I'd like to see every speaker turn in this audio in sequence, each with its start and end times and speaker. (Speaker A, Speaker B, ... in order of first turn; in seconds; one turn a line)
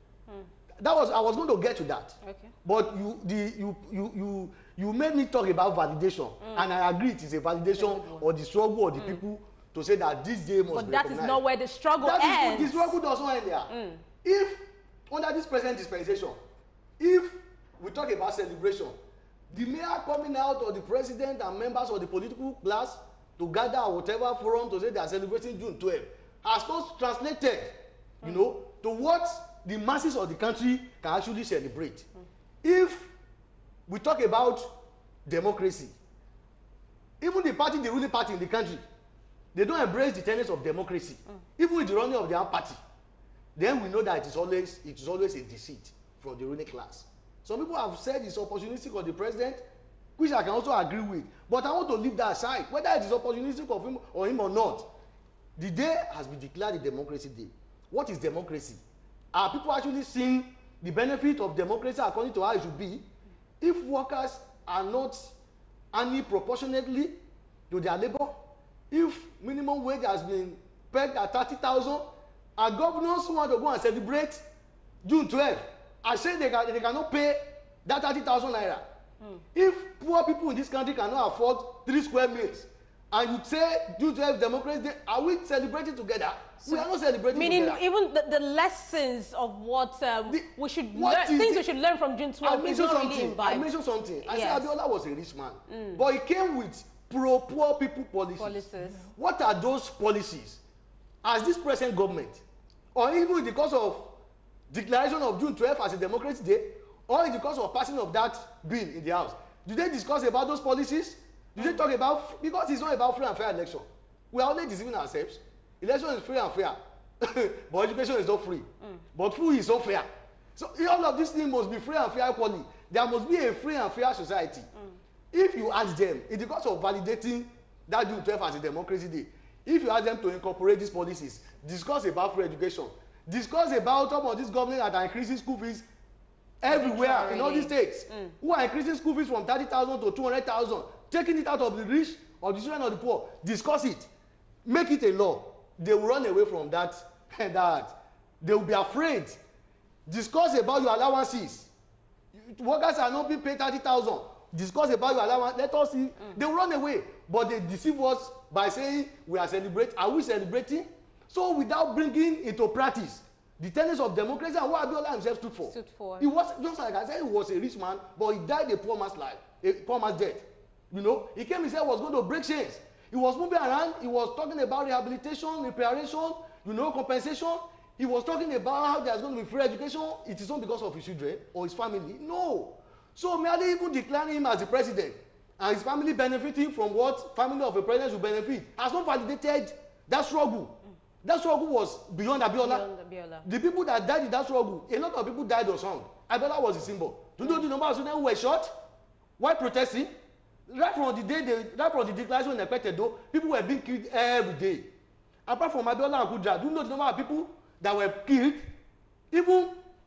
Speaker A: 0.8-11.4
Speaker B: 2.2-2.5
Speaker B: 6.4-6.7
Speaker B: 7.8-8.3
Speaker B: 10.7-13.0
Speaker A: 12.0-13.7
Speaker B: 13.7-14.0
Speaker A: 14.2-16.4
Speaker A: 17.0-19.0
Speaker A: 19.5-32.1
Speaker A: 32.6-33.1
Speaker A: 33.9-34.7
Speaker A: 35.3-35.9
Speaker A: 37.2-38.8
Speaker A: 39.5-42.8
Speaker A: 43.6-49.6
Speaker A: 50.2-54.9
Speaker A: 55.6-58.8
Speaker A: 59.3-63.1
Speaker A: 63.6-65.3
Speaker A: 65.9-67.2
Speaker A: 67.7-74.4
Speaker A: 75.0-78.9
Speaker A: 79.5-87.8
Speaker B: 86.7-93.7
Speaker A: 90.3-91.7
Speaker A: 92.4-100.6
Speaker B: 94.2-94.7
Speaker B: 95.7-96.0
Speaker B: 98.4-99.1
Speaker A: 101.2-102.4
Speaker A: 103.0-104.2
Speaker A: 104.7-124.7
Speaker A: 125.3-135.8
Speaker A: 136.6-144.1
Speaker B: 136.7-138.3
Speaker A: 144.7-149.4
Speaker A: 150.1-151.7
Speaker A: 152.3-192.9
Speaker B: 165.7-166.3
Speaker B: 192.6-193.5
Speaker A: 193.4-198.8
Speaker A: 199.4-200.1
Speaker A: 200.7-204.9
Speaker A: 205.5-208.7
Speaker A: 209.3-209.8